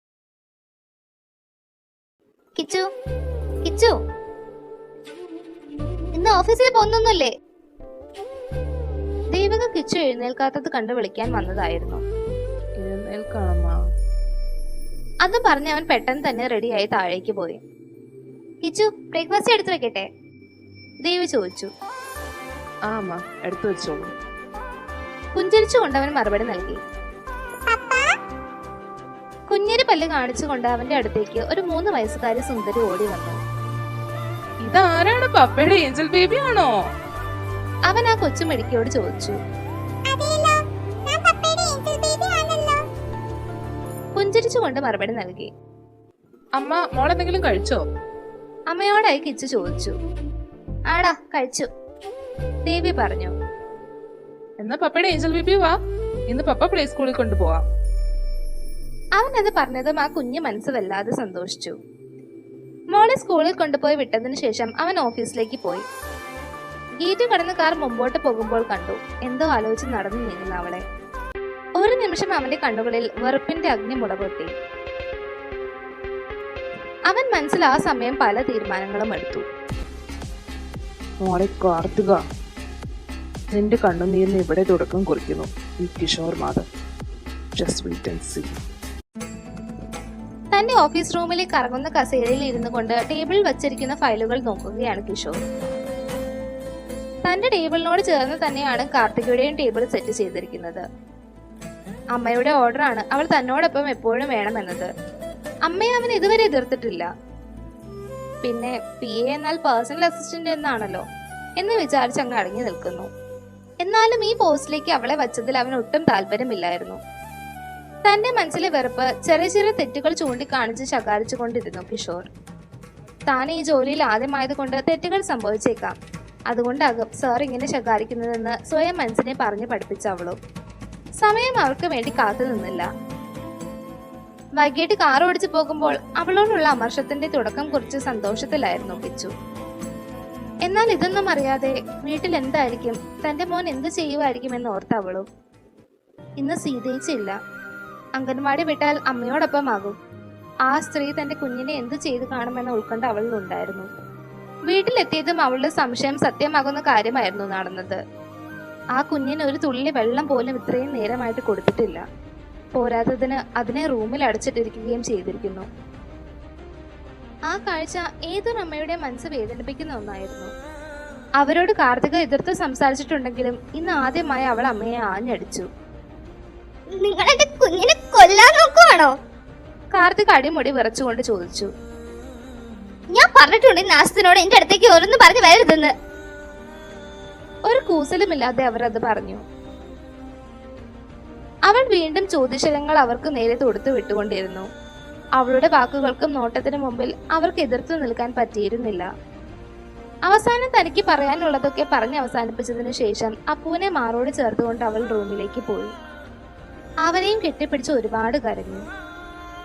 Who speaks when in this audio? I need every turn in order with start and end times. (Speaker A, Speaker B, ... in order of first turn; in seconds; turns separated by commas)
Speaker A: 2.5-2.9, Speaker A: 3.6-4.0, Speaker A: 6.2-7.3, Speaker A: 9.3-12.0, Speaker B: 12.8-13.7, Speaker A: 15.2-17.6, Speaker A: 18.6-20.1, Speaker A: 21.0-21.7, Speaker B: 22.9-24.1, Speaker A: 25.4-26.8, Speaker C: 27.7-28.0, Speaker A: 29.5-33.4, Speaker B: 34.6-36.8, Speaker A: 37.9-39.4, Speaker C: 40.1-40.6, Speaker C: 41.1-42.8, Speaker A: 44.1-45.5, Speaker B: 46.6-47.8, Speaker A: 48.7-50.0, Speaker A: 50.9-51.7, Speaker A: 52.6-53.4, Speaker B: 54.6-55.8, Speaker B: 56.3-57.6, Speaker A: 59.2-61.8, Speaker A: 62.9-65.8, Speaker A: 67.0-70.8, Speaker A: 71.8-74.5, Speaker A: 77.1-79.5, Speaker B: 81.2-82.2, Speaker B: 83.5-86.7, Speaker B: 87.5-88.6, Speaker A: 90.5-95.4, Speaker A: 97.3-100.8, Speaker A: 102.1-104.9, Speaker A: 105.7-107.1, Speaker A: 108.4-111.0, Speaker A: 111.6-113.1, Speaker A: 113.8-117.0, Speaker A: 118.0-122.3, Speaker A: 123.3-126.0, Speaker A: 126.5-130.4, Speaker A: 131.2-132.9, Speaker A: 134.6-139.3, Speaker A: 140.7-145.3, Speaker A: 146.4-147.4, Speaker A: 148.2-150.0, Speaker A: 150.7-153.9, Speaker A: 154.7-158.0, Speaker A: 159.0-162.0, Speaker A: 162.7-165.7, Speaker A: 167.5-170.5, Speaker A: 171.4-175.7, Speaker C: 176.9-179.1, Speaker A: 179.9-181.7, Speaker C: 183.1-185.9, Speaker A: 187.7-189.4, Speaker A: 191.7-194.7, Speaker A: 195.4-199.1, Speaker A: 200.3-205.9, Speaker A: 207.1-208.8